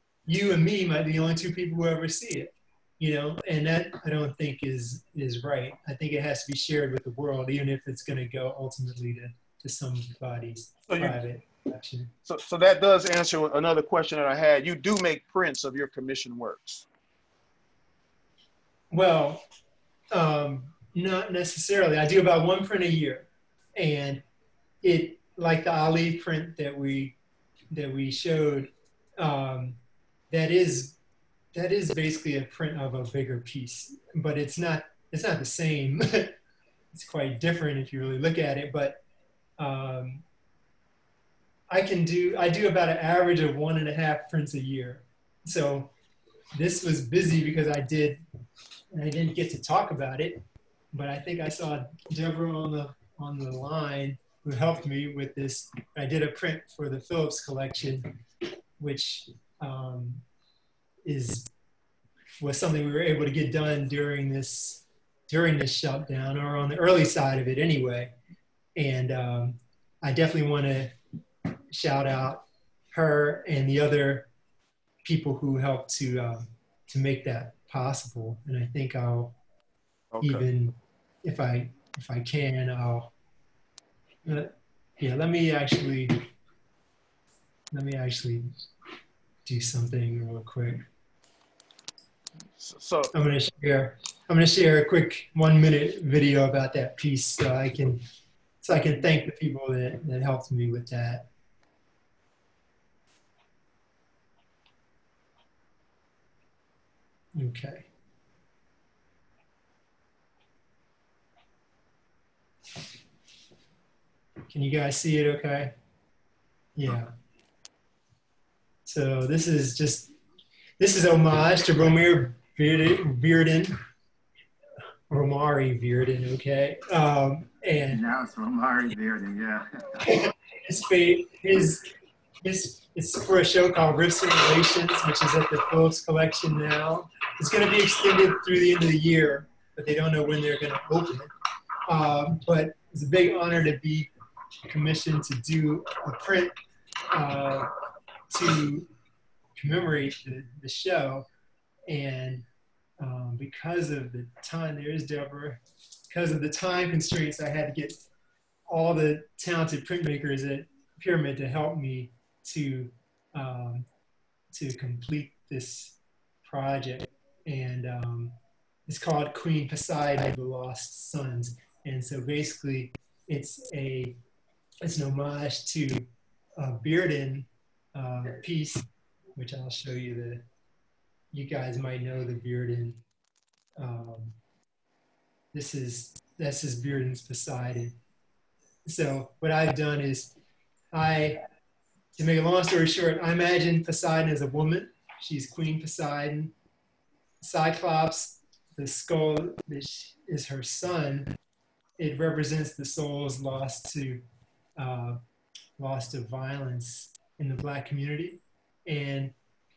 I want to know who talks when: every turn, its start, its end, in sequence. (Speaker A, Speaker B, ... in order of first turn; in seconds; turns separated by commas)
Speaker A: 0.3-12.1, Speaker B: 10.9-11.2, Speaker B: 12.3-16.9, Speaker A: 18.9-19.4, Speaker A: 20.1-24.2, Speaker A: 24.8-27.2, Speaker A: 27.7-29.8, Speaker A: 30.3-31.0, Speaker A: 31.5-36.3, Speaker A: 36.9-39.0, Speaker A: 39.6-40.2, Speaker A: 41.7-45.9, Speaker A: 46.5-48.2, Speaker A: 48.9-58.1, Speaker A: 58.8-60.2, Speaker A: 61.0-61.5, Speaker A: 62.4-68.1, Speaker A: 68.8-70.9, Speaker A: 71.7-74.3, Speaker A: 75.0-79.3, Speaker B: 80.1-80.4, Speaker A: 80.2-83.1, Speaker A: 84.2-86.2, Speaker A: 87.7-88.5, Speaker A: 89.5-90.8, Speaker B: 92.5-93.1, Speaker A: 93.1-98.0, Speaker A: 98.6-101.3, Speaker A: 107.3-107.9, Speaker A: 114.5-115.7, Speaker A: 116.8-117.1, Speaker A: 118.9-120.1, Speaker A: 120.8-123.8, Speaker A: 125.1-128.0, Speaker C: 127.9-130.1, Speaker A: 130.1-131.8, Speaker A: 132.4-141.3, Speaker A: 141.9-144.1, Speaker A: 144.7-146.5, Speaker A: 147.1-147.7, Speaker A: 148.3-148.9, Speaker A: 149.6-151.3, Speaker A: 151.9-152.4, Speaker A: 153.0-158.0, Speaker A: 158.7-163.9, Speaker A: 164.5-168.3, Speaker A: 168.9-174.2, Speaker A: 174.8-180.4, Speaker A: 181.3-183.0, Speaker A: 183.8-184.4, Speaker A: 185.5-188.0, Speaker A: 188.8-190.3, Speaker A: 190.9-191.4, Speaker A: 192.2-196.5, Speaker A: 197.4-201.3, Speaker A: 202.0-204.2, Speaker A: 204.8-205.2, Speaker A: 205.8-209.3